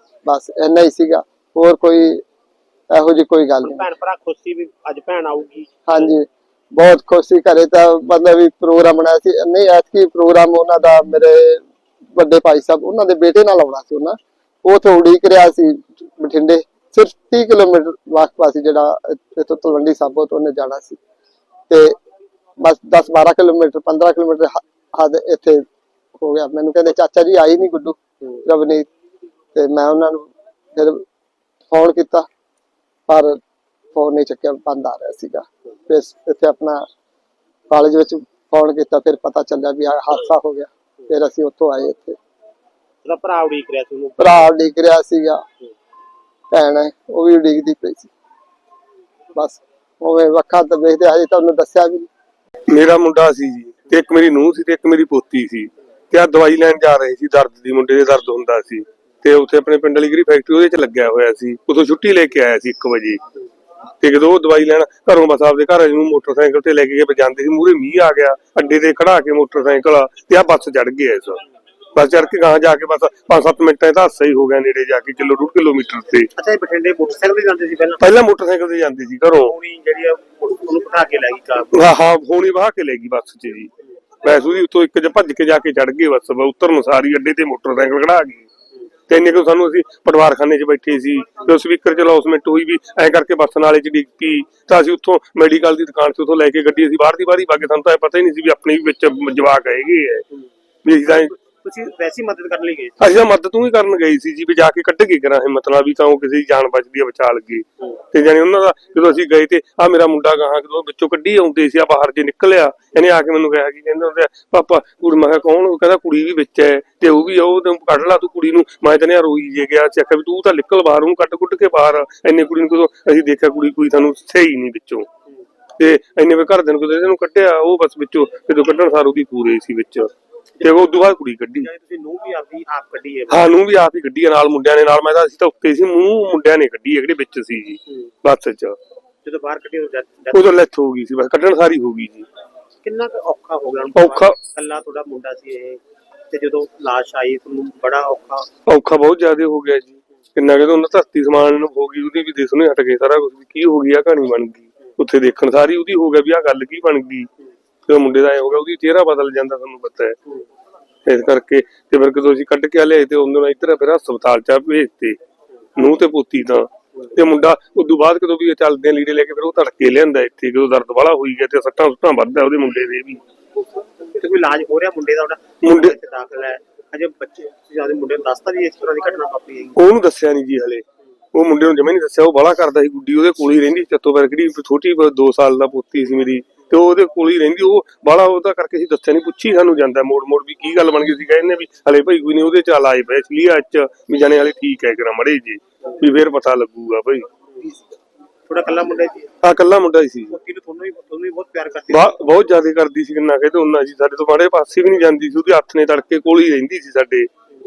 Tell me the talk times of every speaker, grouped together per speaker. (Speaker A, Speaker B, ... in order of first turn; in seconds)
Speaker A: 0.2-2.2, 2.9-3.9, 5.8-11.6, 12.1-21.0, 21.7-21.9, 22.6-25.6, 26.2-28.9, 29.5-31.0, 31.7-32.3, 33.1-33.4, 33.9-36.9, 37.7-42.2, 44.2-45.4, 46.5-48.1, 49.3-52.1
Speaker B: 3.6-6.1, 43.0-44.5, 76.3-78.0, 79.4-81.8, 101.1-103.1, 131.6-133.5, 139.2-140.5, 142.8-148.5, 174.1-179.8, 198.5-199.3, 200.3-202.1
Speaker C: 52.7-63.2, 64.0-71.4, 71.9-76.3, 78.0-79.5, 81.7-83.7, 84.2-88.5, 89.1-100.2, 100.8-101.3, 103.0-125.1, 125.8-130.1, 130.6-131.7, 133.3-138.8, 140.3-142.2, 143.9-144.4, 148.7-157.3, 157.9-160.2, 161.0-165.2, 165.8-173.2, 175.6-176.0, 179.8-197.3, 199.4-200.3, 201.9-207.3